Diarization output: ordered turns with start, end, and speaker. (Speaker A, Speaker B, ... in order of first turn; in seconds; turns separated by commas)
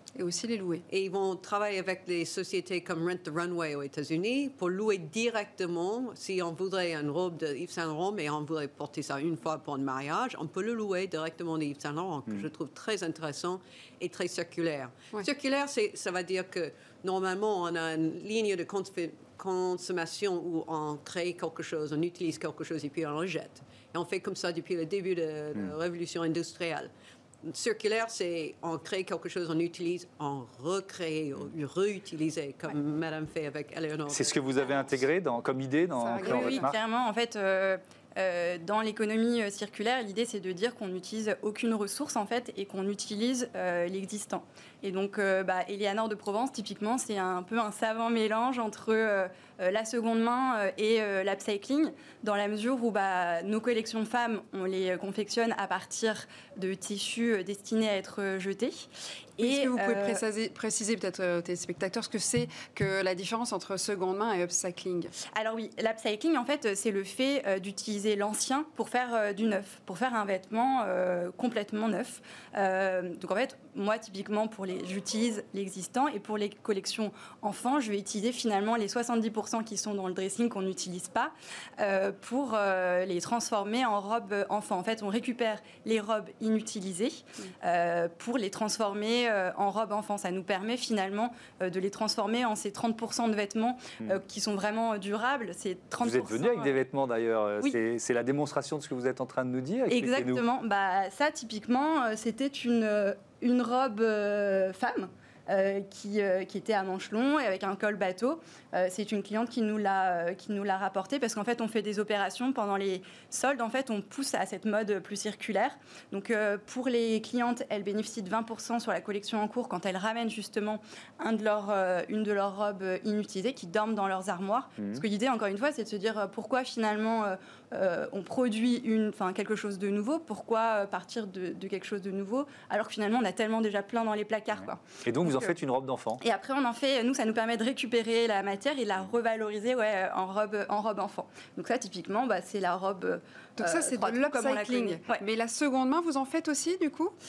Speaker A: 0.1-0.8, Speaker B: 0.9-26.9, Speaker B: 27.4-35.0, Speaker C: 34.1-36.8, Speaker A: 36.0-36.7, Speaker D: 36.2-60.2, Speaker A: 59.4-65.1, Speaker D: 65.3-96.8, Speaker C: 96.0-100.4, Speaker D: 99.9-135.5, Speaker C: 124.8-125.0, Speaker C: 134.6-136.2, Speaker D: 136.2-145.2, Speaker A: 143.6-147.2